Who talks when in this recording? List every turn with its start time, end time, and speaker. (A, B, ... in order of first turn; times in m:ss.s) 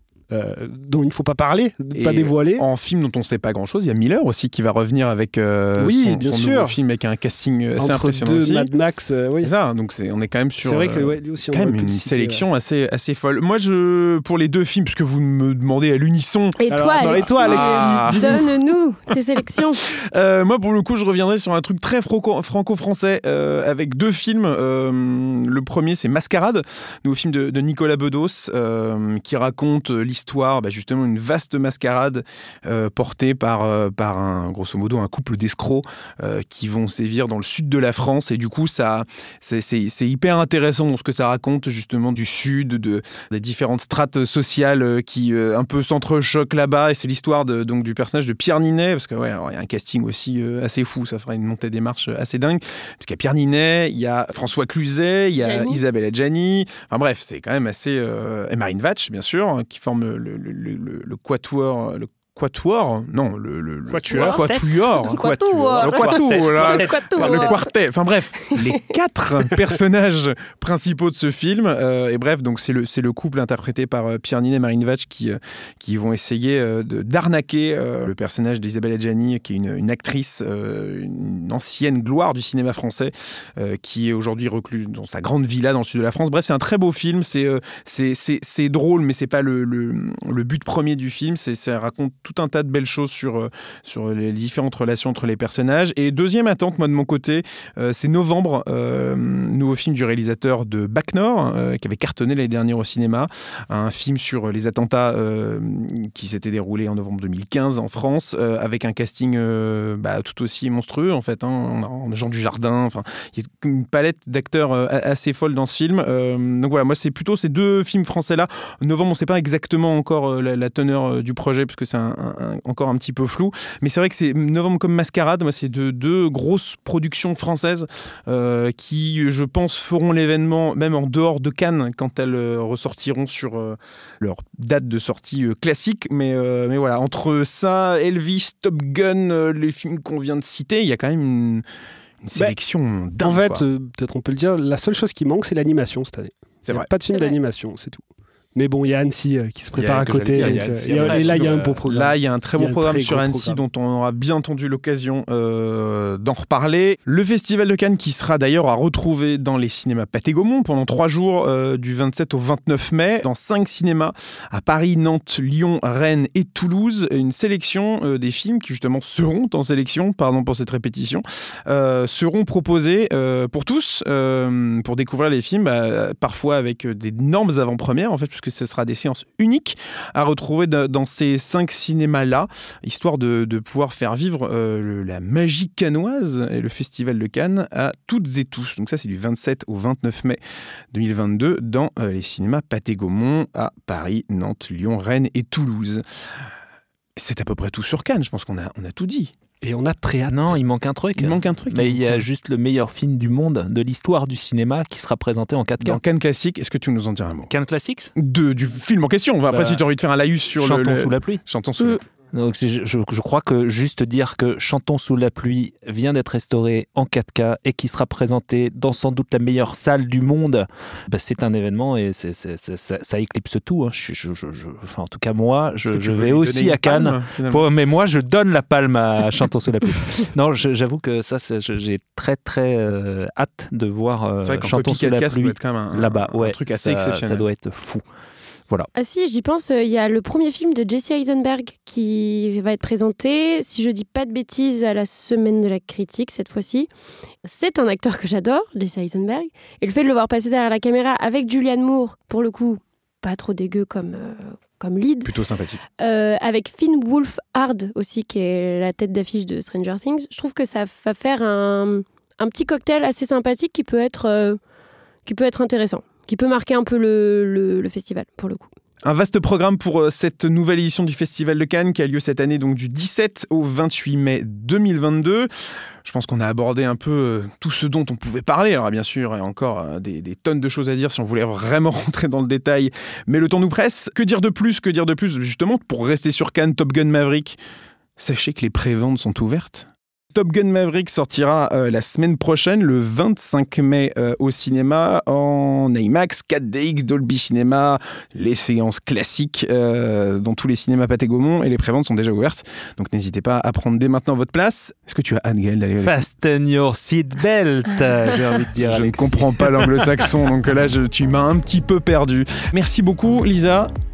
0:00.3-0:02.6 A
0:01.9-0:08.7 B
0:05.8-0:06.7 A
0:07.8-0:09.5 A
0:09.4-0:18.3 B
0:10.6-0:12.4 A
0:16.6-0:19.9 C
0:16.7-0:18.4 A
0:19.8-2:21.6 B
0:55.4-0:55.8 C
1:03.9-1:07.6 D
1:04.1-1:04.4 C
1:05.0-1:07.6 C
1:08.4-1:08.8 C
2:22.2-2:23.6 B
2:23.2-2:33.6 A
2:27.1-2:27.3 C
2:29.8-2:31.8 D
2:29.9-3:10.4 B
3:10.9-3:16.0 B
3:17.2-3:19.3 B
3:19.6-3:20.6 A
3:20.3-3:26.0 D
3:21.2-3:22.2 B
3:25.8-3:27.5 B
3:27.5-3:28.1 D
3:28.2-3:32.0 B
3:29.5-3:29.8 D
3:30.6-3:31.4 D
3:32.3-3:58.0 D
3:45.9-3:47.6 B
3:54.4-3:57.4 B
3:58.9-4:06.9 C
4:07.4-4:15.3 C
4:15.2-4:15.8 B
4:16.0-4:24.6 C
4:25.2-4:28.7 C
4:29.0-4:35.5 B
4:36.0-4:47.6 B
4:48.2-5:06.2 B
5:06.0-5:10.3 D
5:08.8-5:13.9 B